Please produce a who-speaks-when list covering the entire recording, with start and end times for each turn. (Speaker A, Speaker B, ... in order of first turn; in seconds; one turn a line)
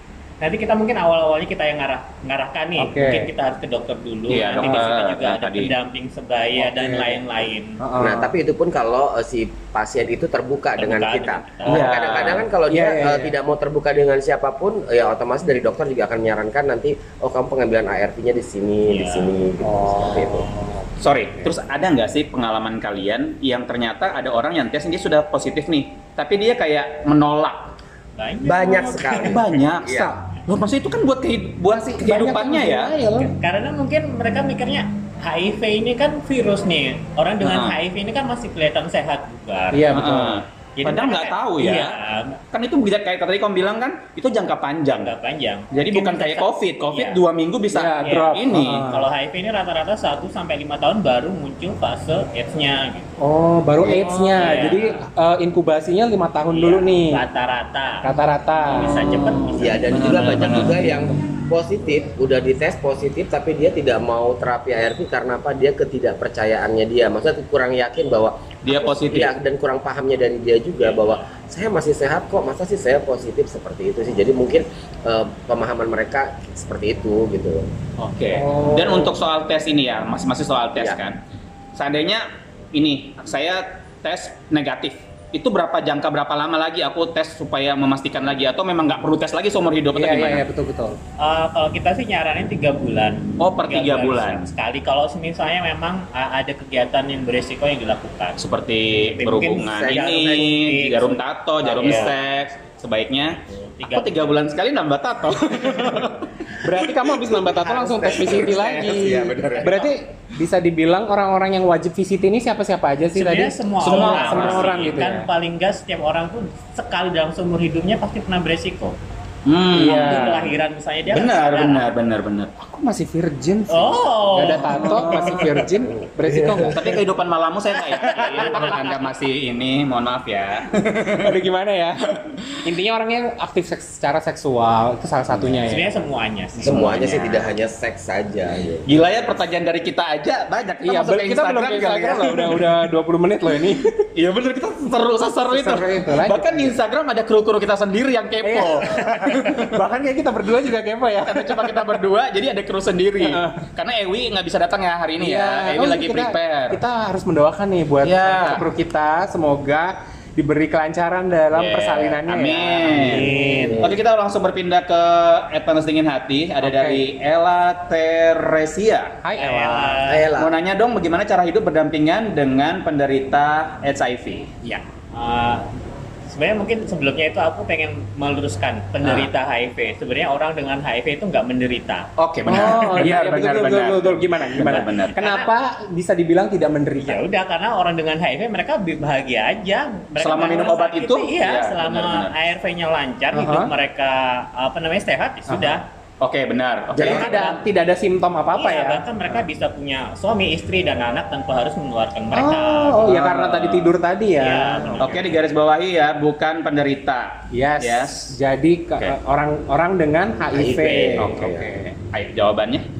Speaker A: 0.4-7.8
Speaker B: 2.8-3.3
Speaker C: 4.3-5.7
Speaker B: 6.6-7.2
Speaker B: 7.8-8.3
Speaker D: 8.0-20.5
Speaker A: 10.8-12.2
Speaker C: 11.7-12.5
Speaker B: 12.7-13.3
Speaker A: 18.9-19.4
Speaker B: 19.6-21.5
Speaker C: 21.0-27.7
Speaker A: 28.2-29.4
Speaker D: 28.4-30.1
Speaker C: 29.2-32.9
Speaker B: 29.9-30.2
Speaker B: 31.7-33.3
Speaker A: 33.2-39.9
Speaker C: 37.4-37.8
Speaker B: 39.7-40.4
Speaker C: 39.9-42.0
Speaker A: 40.8-42.4
Speaker C: 42.5-45.1
Speaker A: 44.9-47.2
Speaker C: 45.7-48.9
Speaker B: 47.7-49.1
Speaker A: 48.0-53.1
Speaker B: 53.2-57.2
Speaker C: 53.8-54.7
Speaker A: 54.4-55.0
Speaker A: 56.5-60.1
Speaker B: 58.0-59.0
Speaker C: 59.0-60.9
Speaker D: 59.5-77.7
Speaker C: 68.6-69.3
Speaker A: 70.8-71.2
Speaker C: 78.0-81.2
Speaker B: 78.3-79.2
Speaker D: 80.8-81.0
Speaker C: 81.7-90.4
Speaker B: 89.9-91.0
Speaker A: 91.2-98.4
Speaker C: 93.4-94.5
Speaker C: 98.4-106.9
Speaker A: 98.9-102.2
Speaker D: 99.7-100.6
Speaker D: 101.7-102.1
Speaker A: 103.5-104.4
Speaker B: 106.6-115.3
Speaker D: 107.3-109.9
Speaker C: 108.2-109.9
Speaker A: 113.1-119.0
Speaker C: 113.8-114.9
Speaker C: 119.5-120.5
Speaker B: 119.7-120.5
Speaker A: 119.8-121.8
Speaker C: 121.1-122.5
Speaker B: 122.6-126.9
Speaker A: 123.7-125.4
Speaker C: 124.7-125.6
Speaker D: 126.2-126.9
Speaker C: 126.7-131.4
Speaker A: 127.9-128.9
Speaker B: 131.2-132.0
Speaker C: 132.1-132.4
Speaker B: 132.6-135.9
Speaker C: 135.3-135.6
Speaker A: 135.7-137.2
Speaker D: 136.6-139.3
Speaker C: 136.6-137.5
Speaker C: 138.8-142.7
Speaker B: 140.8-144.0
Speaker C: 144.1-149.7
Speaker B: 145.5-146.7
Speaker B: 148.4-151.8
Speaker C: 151.2-156.8
Speaker B: 153.2-153.6
Speaker B: 155.2-163.8
Speaker C: 158.0-158.6
Speaker C: 161.5-163.3
Speaker A: 162.9-163.9
Speaker D: 163.2-163.9
Speaker C: 163.8-169.2
Speaker B: 166.6-167.1
Speaker B: 169.2-170.1
Speaker A: 169.3-170.3
Speaker D: 170.1-170.5
Speaker C: 170.3-174.5
Speaker A: 175.1-175.7
Speaker A: 176.3-182.1
Speaker C: 179.0-179.3
Speaker C: 182.2-185.2
Speaker B: 182.5-187.2
Speaker A: 185.1-185.5
Speaker A: 187.0-195.8
Speaker C: 190.2-192.3
Speaker B: 193.3-193.7
Speaker B: 195.5-195.8
Speaker C: 196.2-197.4
Speaker B: 196.9-199.4
Speaker A: 197.0-197.6
Speaker A: 198.5-203.1
Speaker B: 202.3-205.1
Speaker C: 203.0-203.9
Speaker A: 204.3-205.4
Speaker C: 205.0-208.4
Speaker B: 207.5-211.8
Speaker D: 210.5-211.7
Speaker C: 211.2-212.8